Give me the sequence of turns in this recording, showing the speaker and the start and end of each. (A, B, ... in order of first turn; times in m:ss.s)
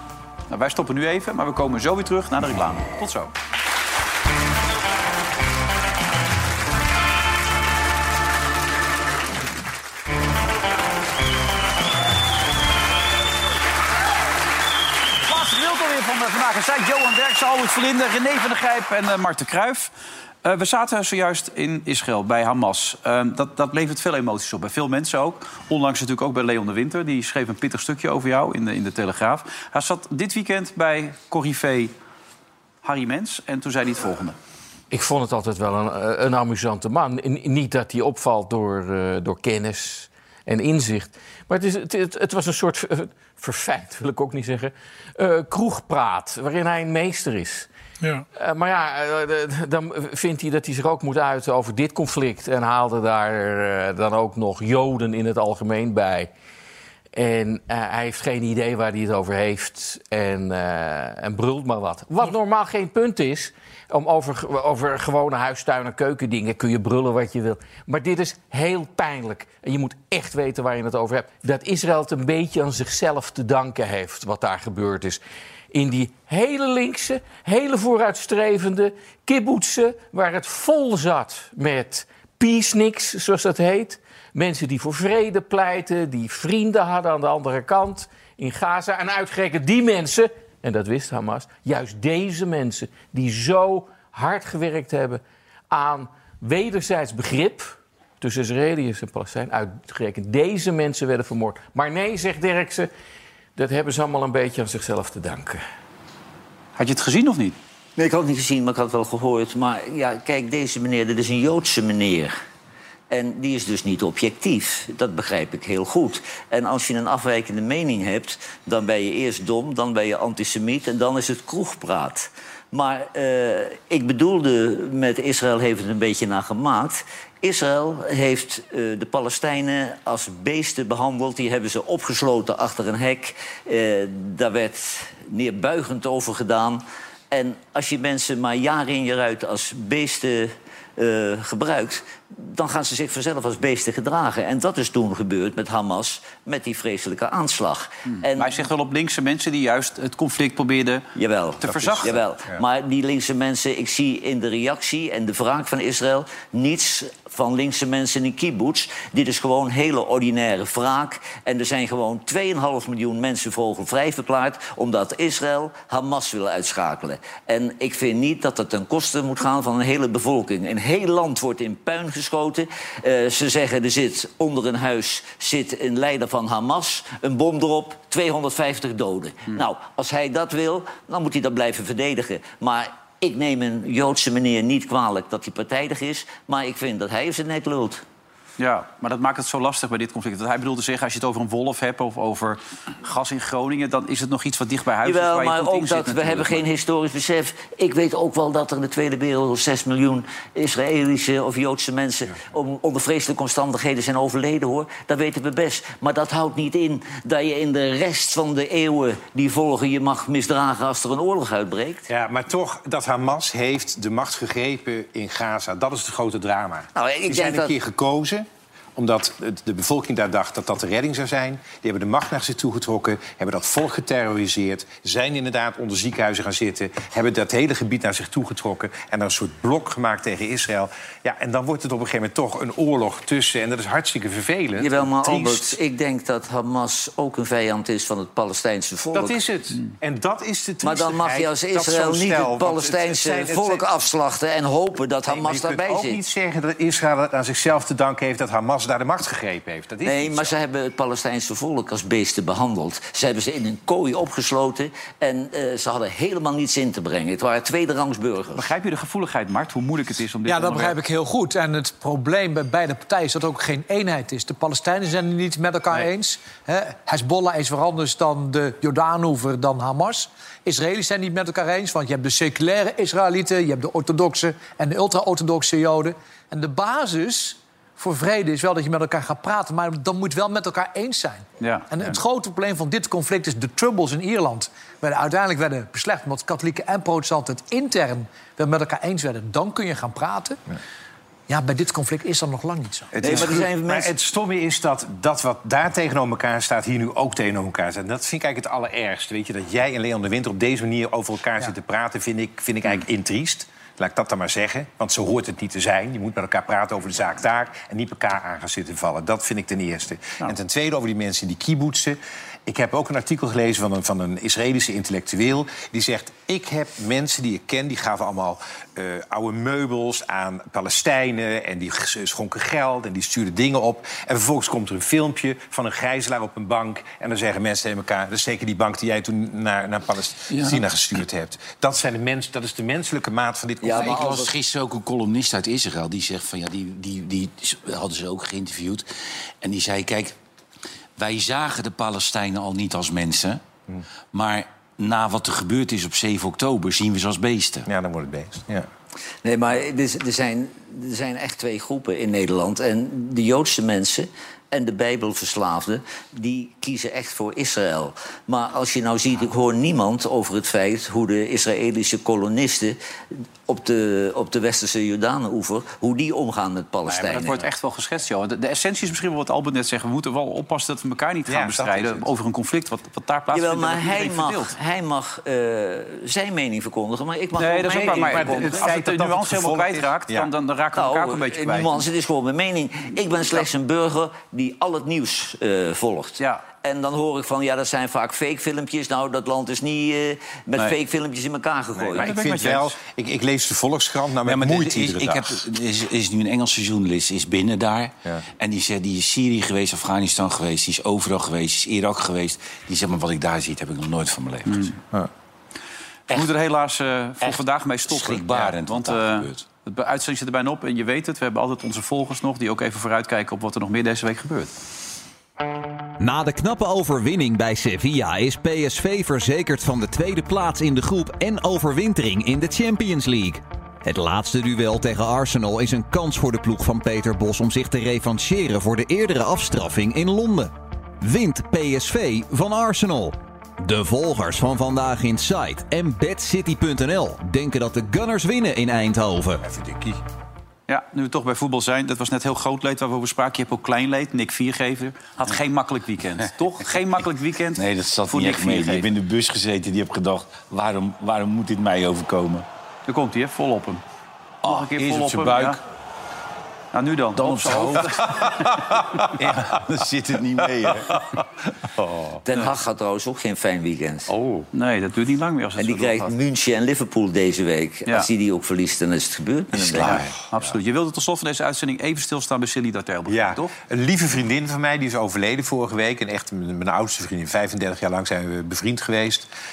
0:00.5-0:03.3 A
0:15.3-0:19.9 A
0:20.4-0:31.9 A
0:32.8-0:34.4 A
0:34.9-0:47.7 B
0:48.3-0:56.3 B
0:57.1-1:15.2 B
1:15.7-1:42.9 B
1:43.6-1:45.6 B
1:46.8-1:47.6 A
1:48.0-1:52.4 C
1:53.1-2:28.6 C
2:28.3-2:31.0 A
2:31.2-3:08.0 C
2:31.6-2:32.1 A
2:31.7-2:32.6 D
3:08.6-3:16.6 A
3:15.0-3:32.1 C
3:32.1-3:55.8 D
3:37.0-3:37.8 C
3:54.8-3:59.4 C
3:59.1-4:03.9 D
4:00.8-4:06.2 C
4:05.3-4:10.6 D
4:10.0-4:18.7 C
4:18.6-4:21.0 A
4:20.5-4:50.6 E
4:41.6-4:41.9 A
4:51.5-4:53.4 E
4:53.1-5:34.3 D
4:53.2-4:54.1 C
5:30.5-5:30.8 F
5:33.8-5:34.5 C
5:33.9-5:39.1 F
5:39.6-5:40.4 F
5:41.2-5:43.6 F
5:44.3-5:47.9 F
5:47.9-5:48.9 D
5:49.4-6:03.0 C
6:03.7-6:07.6 C
6:07.1-6:14.8 A
6:11.5-6:12.3 D
6:13.5-6:18.8 C
6:17.6-6:22.0 A
6:17.9-6:20.5 D
6:21.0-6:32.3 C
6:32.1-6:33.0 A
6:32.2-6:35.6 D
6:34.5-6:45.0 F
6:44.7-6:45.0 A
6:46.3-6:54.7 A
6:48.1-6:49.6 F
6:56.2-7:19.6 G
7:19.6-7:20.2 D
7:20.9-7:29.1 A
7:27.8-7:32.7 F
7:33.1-7:34.0 A
7:34.6-7:35.8 F
7:34.6-7:35.8 A
7:36.9-7:38.8 A
7:37.4-7:38.5 F
7:39.2-7:41.2 F
7:42.0-7:42.4 D
7:42.4-7:44.3 C
7:44.3-7:44.7 D
7:44.7-7:46.3 A
7:45.8-7:50.2 C
7:49.8-7:50.4 F
7:50.0-7:53.7 A
7:53.3-7:59.5 D